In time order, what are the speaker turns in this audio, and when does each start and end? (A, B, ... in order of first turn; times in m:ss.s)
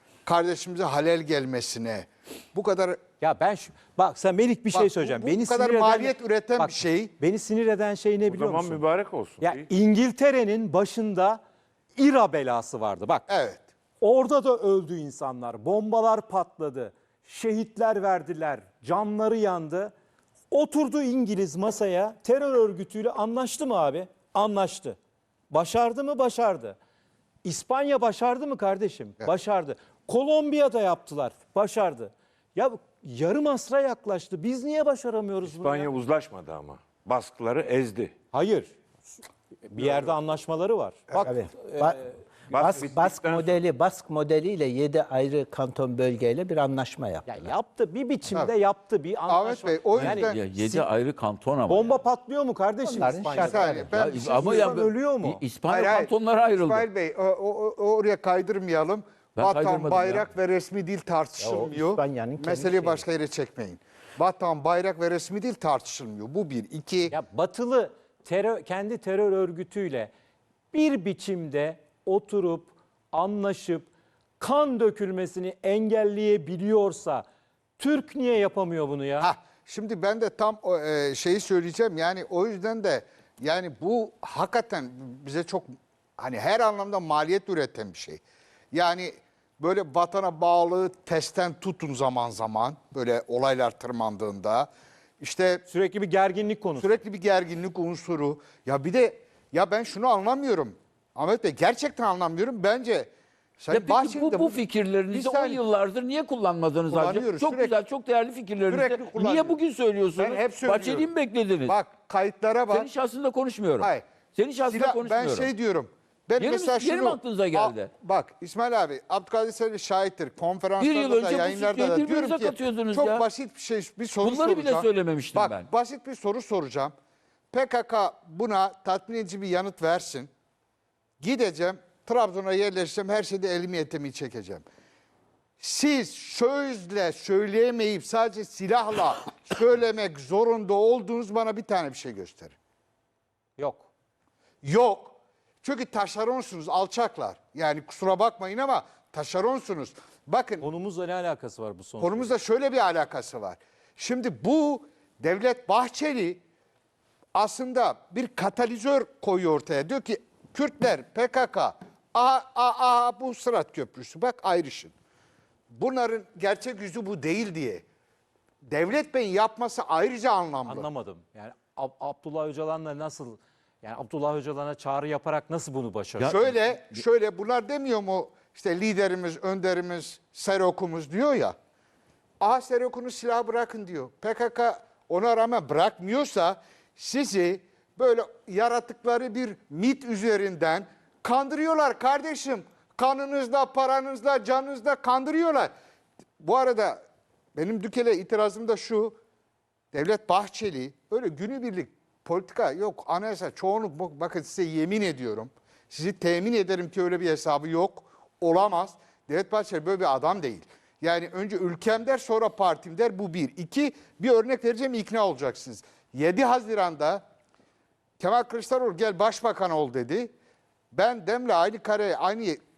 0:00.3-0:03.0 A
0:03.2-0:08.8 B
0:04.7-0:07.1 A
0:08.3-0:09.7 C
0:09.4-0:11.4 B
0:12.0-0:13.3 B
0:13.3-0:13.6 A
0:14.0-0:19.9 B
0:20.5-0:25.0 B
0:25.5-0:26.8 B
0:27.4-0:35.9 B
0:35.4-0:38.1 C
0:38.3-0:42.0 B
0:41.2-0:47.5 D
0:42.5-0:43.6 C
0:47.3-0:50.3 B
0:49.3-0:50.8 A
0:50.0-0:52.0 E
0:51.7-0:55.4 B
0:52.8-0:53.9 D
0:53.4-0:54.8 A
0:53.9-0:56.9 E
0:55.7-1:07.1 A
0:59.4-1:00.2 E
1:01.4-1:03.0 D
1:07.1-1:10.1 B
1:10.7-1:17.3 B
1:17.8-1:19.3 B
1:19.2-1:28.2 A
1:28.7-1:34.7 A
1:35.2-1:35.6 A
1:35.7-1:37.0 B
1:36.8-1:45.6 A
1:43.7-1:51.8 E
1:46.9-1:47.8 A
1:48.7-1:49.6 A
1:50.2-1:51.1 A
1:51.7-1:52.9 A
1:52.7-1:55.5 E
1:53.8-1:54.0 A
1:54.6-2:06.9 A
1:56.4-1:57.9 E
2:00.8-2:03.2 E
2:04.2-2:05.7 E
2:07.5-2:10.3 A
2:11.2-2:14.6 A
2:15.6-2:22.6 A
2:23.6-2:23.9 B
2:24.6-2:30.6 A
2:30.6-2:32.4 B
2:32.0-2:36.4 A
2:37.3-2:44.9 A
2:45.7-2:47.8 A
2:48.7-2:50.9 A
2:50.7-2:56.4 B
2:56.2-2:57.0 E
2:56.2-3:01.6 A
3:02.4-3:15.7 A
3:16.4-3:17.0 A
3:17.6-3:19.2 A
3:19.9-3:37.2 A
3:38.2-3:40.3 A
3:40.9-3:42.6 A